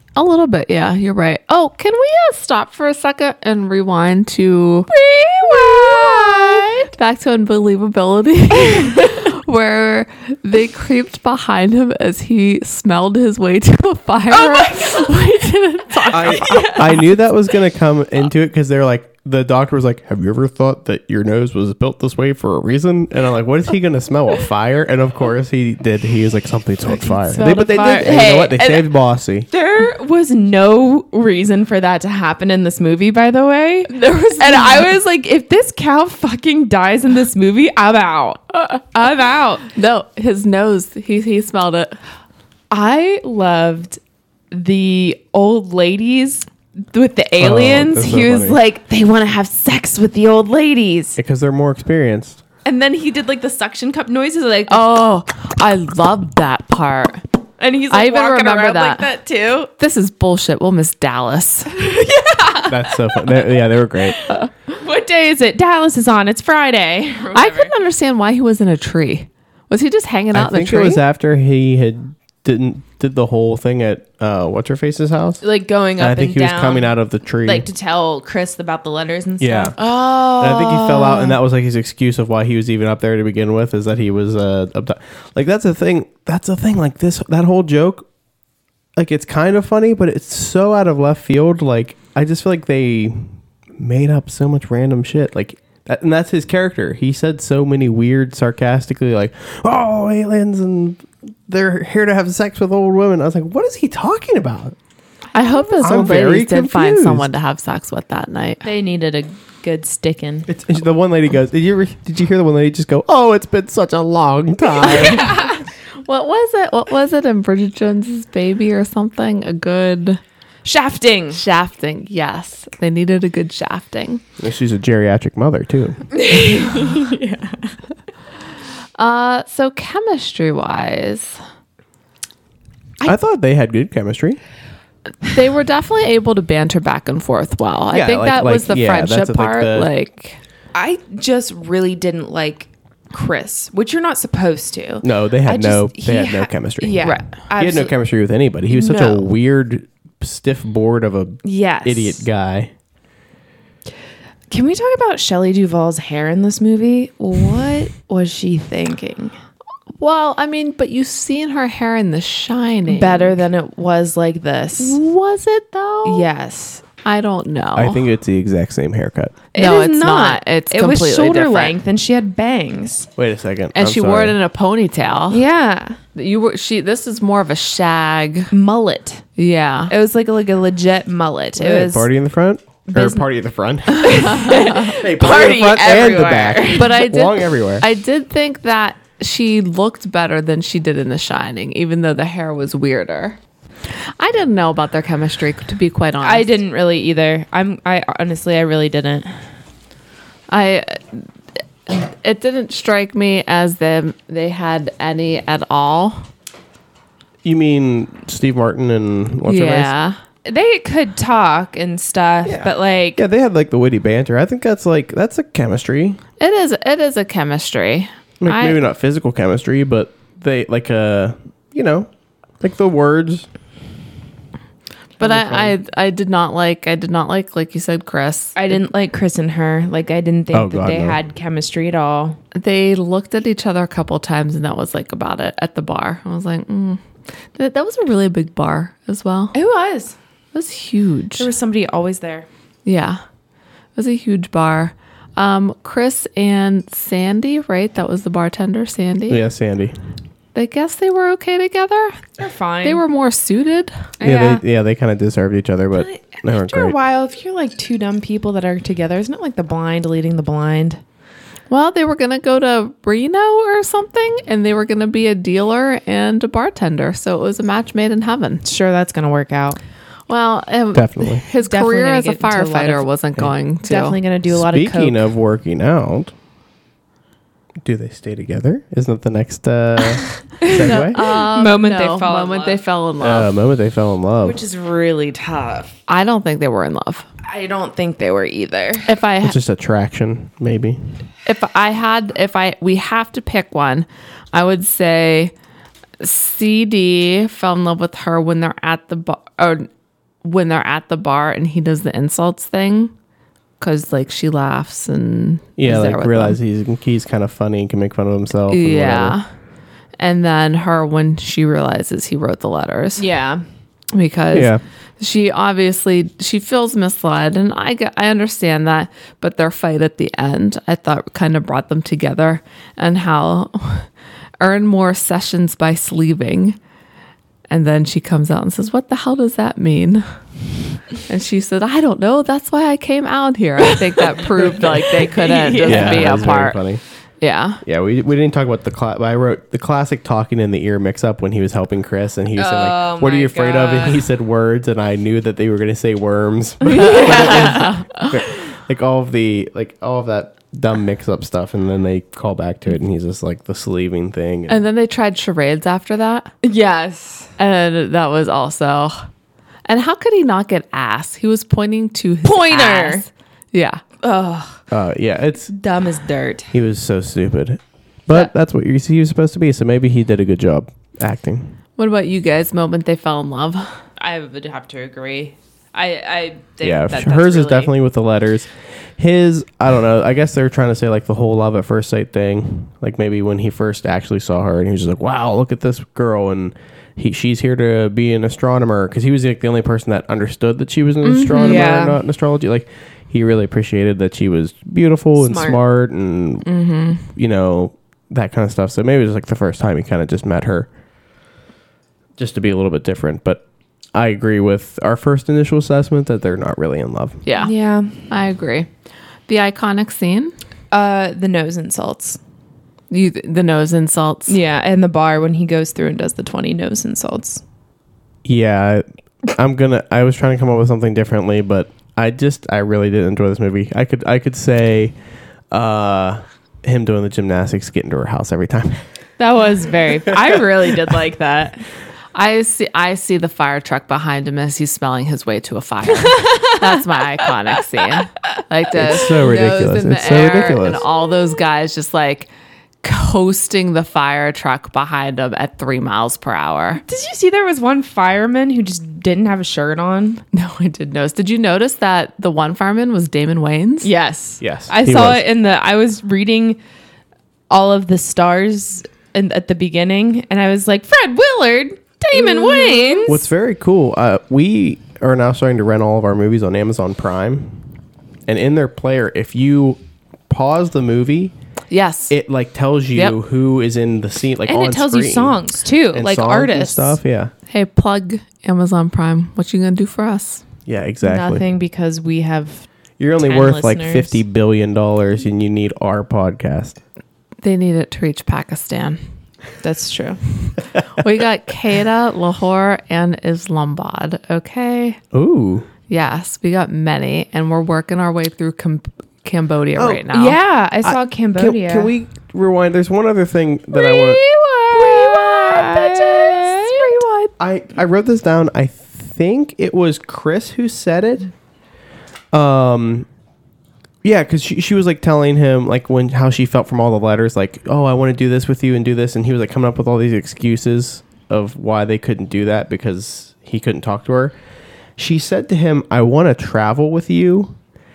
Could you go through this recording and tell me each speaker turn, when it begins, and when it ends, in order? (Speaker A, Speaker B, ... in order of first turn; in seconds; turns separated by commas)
Speaker A: 0.1-17.1, Speaker B: 4.9-6.9, Speaker B: 8.7-9.0, Speaker B: 14.3-15.1, Speaker B: 16.0-16.9, Speaker C: 16.1-29.5, Speaker B: 27.1-28.9, Speaker B: 29.5-39.6, Speaker A: 33.9-34.9, Speaker A: 39.7-42.0, Speaker B: 42.7-44.0, Speaker B: 44.5-51.2, Speaker C: 47.4-48.6, Speaker C: 51.2-52.4, Speaker B: 52.6-54.9, Speaker A: 54.7-57.2, Speaker B: 57.6-59.7, Speaker A: 57.9-59.1, Speaker A: 59.8-61.7, Speaker B: 61.7-67.7, Speaker C: 62.6-64.2, Speaker A: 67.3-71.0, Speaker C: 70.3-75.4, Speaker B: 75.4-79.8, Speaker C: 76.0-77.7, Speaker C: 79.4-88.0, Speaker A: 79.8-81.2, Speaker C: 89.0-104.7, Speaker A: 105.3-108.6, Speaker B: 105.4-106.1, Speaker C: 105.8-107.3, Speaker B: 108.6-110.5, Speaker C: 110.5-115.3, Speaker B: 115.0-115.5, Speaker A: 116.0-120.2, Speaker B: 120.6-121.4, Speaker A: 121.3-124.2, Speaker C: 124.4-126.4, Speaker B: 126.1-127.8, Speaker A: 129.0-131.4, Speaker C: 133.0-134.4, Speaker A: 135.2-140.4, Speaker C: 137.9-139.9, Speaker B: 140.7-147.9, Speaker C: 145.0-152.7, Speaker A: 147.0-147.3, Speaker B: 148.7-149.2, Speaker B: 151.4-152.2, Speaker B: 154.5-159.3, Speaker A: 160.0-163.4, Speaker B: 162.9-165.0, Speaker A: 164.8-166.3, Speaker B: 166.0-166.8, Speaker A: 167.0-168.0, Speaker C: 167.7-169.4, Speaker B: 169.5-173.1, Speaker A: 169.6-171.7, Speaker C: 173.2-174.4, Speaker A: 173.7-175.4, Speaker B: 175.3-176.0, Speaker A: 176.1-178.5, Speaker B: 178.5-179.2, Speaker A: 179.4-179.9, Speaker B: 179.9-182.1, Speaker C: 181.6-187.8, Speaker B: 182.9-183.2, Speaker B: 183.9-187.0, Speaker A: 184.0-184.9, Speaker A: 186.7-193.4, Speaker A: 193.9-196.5, Speaker B: 196.2-199.4, Speaker A: 200.5-201.3, Speaker A: 201.9-206.3, Speaker C: 207.4-209.9, Speaker A: 209.5-210.2, Speaker B: 210.4-213.2, Speaker C: 212.4-216.2, Speaker A: 216.4-218.8, Speaker C: 218.4-222.1, Speaker C: 222.6-223.5, Speaker C: 225.2-225.8, Speaker A: 225.2-228.8, Speaker B: 228.6-232.4, Speaker C: 230.5-231.2, Speaker A: 232.5-237.0, Speaker A: 237.5-239.5, Speaker B: 239.5-240.2, Speaker A: 240.5-241.5, Speaker B: 241.4-242.5, Speaker A: 242.8-243.2, Speaker A: 243.9-249.4, Speaker C: 249.3-249.9, Speaker A: 250.5-252.3, Speaker B: 252.4-253.0, Speaker A: 252.8-254.0, Speaker B: 254.2-254.6, Speaker C: 254.2-257.0, Speaker B: 256.0-261.0, Speaker A: 261.7-268.6, Speaker B: 268.6-269.8, Speaker A: 270.3-274.2, Speaker C: 270.9-271.4, Speaker B: 271.6-273.1, Speaker B: 273.8-275.2, Speaker C: 274.5-276.3, Speaker C: 277.8-281.2, Speaker B: 280.6-282.8, Speaker A: 280.8-283.5, Speaker C: 283.2-284.6, Speaker B: 284.4-285.9, Speaker A: 286.1-287.2, Speaker B: 287.4-289.2, Speaker A: 289.1-289.6, Speaker C: 289.4-291.1, Speaker A: 291.4-295.5, Speaker A: 296.2-299.9, Speaker A: 300.4-303.1, Speaker A: 303.8-306.6, Speaker C: 305.8-309.4, Speaker A: 308.7-309.5, Speaker A: 310.2-313.2, Speaker B: 313.2-313.6, Speaker A: 314.1-324.1, Speaker C: 314.5-314.8, Speaker A: 324.6-326.8, Speaker A: 327.7-330.2, Speaker A: 331.3-336.8, Speaker B: 334.5-336.6, Speaker C: 335.8-337.0, Speaker A: 337.4-337.8, Speaker C: 337.8-354.8, Speaker B: 342.6-344.2, Speaker B: 346.8-347.9, Speaker A: 347.1-348.3, Speaker A: 354.7-356.5, Speaker B: 356.6-357.5, Speaker A: 357.6-359.2, Speaker A: 359.9-364.0, Speaker B: 362.4-363.2, Speaker B: 364.2-364.8, Speaker C: 364.9-365.7, Speaker B: 365.7-366.7, Speaker C: 366.7-371.8, Speaker A: 372.0-374.0, Speaker B: 374.2-377.9, Speaker C: 376.8-396.7, Speaker A: 391.2-391.9, Speaker B: 391.5-392.2, Speaker B: 395.4-395.8, Speaker A: 396.6-397.2, Speaker C: 397.3-400.9, Speaker C: 402.4-403.6, Speaker C: 404.1-407.4, Speaker A: 407.4-407.7, Speaker B: 407.6-408.3, Speaker A: 408.3-408.9, Speaker A: 409.5-410.5, Speaker B: 410.9-412.4, Speaker A: 413.1-414.5, Speaker B: 414.5-417.6, Speaker C: 418.4-425.1, Speaker C: 425.7-429.0, Speaker B: 429.4-431.8, Speaker A: 432.3-442.5, Speaker B: 436.2-437.0, Speaker C: 438.9-441.0, Speaker A: 443.0-447.0, Speaker B: 447.0-450.4, Speaker A: 450.5-454.1, Speaker B: 454.0-456.8, Speaker C: 454.6-455.4, Speaker B: 457.7-463.4, Speaker A: 462.3-463.3, Speaker C: 463.3-467.8, Speaker C: 468.5-471.5, Speaker A: 471.9-472.3, Speaker C: 472.3-475.6, Speaker B: 474.6-477.2, Speaker C: 476.1-477.5, Speaker A: 477.7-480.6, Speaker C: 480.9-481.6, Speaker B: 481.2-482.9, Speaker C: 483.2-487.0, Speaker B: 483.4-484.4, Speaker A: 487.6-489.2, Speaker B: 489.8-490.4, Speaker A: 491.2-495.2, Speaker C: 495.3-495.9, Speaker A: 496.1-500.6, Speaker C: 500.0-500.2, Speaker B: 500.3-502.1, Speaker C: 501.0-504.4, Speaker B: 503.9-507.5, Speaker A: 504.9-507.4, Speaker C: 507.6-511.5, Speaker C: 512.5-513.3, Speaker C: 514.2-524.5, Speaker C: 525.2-527.8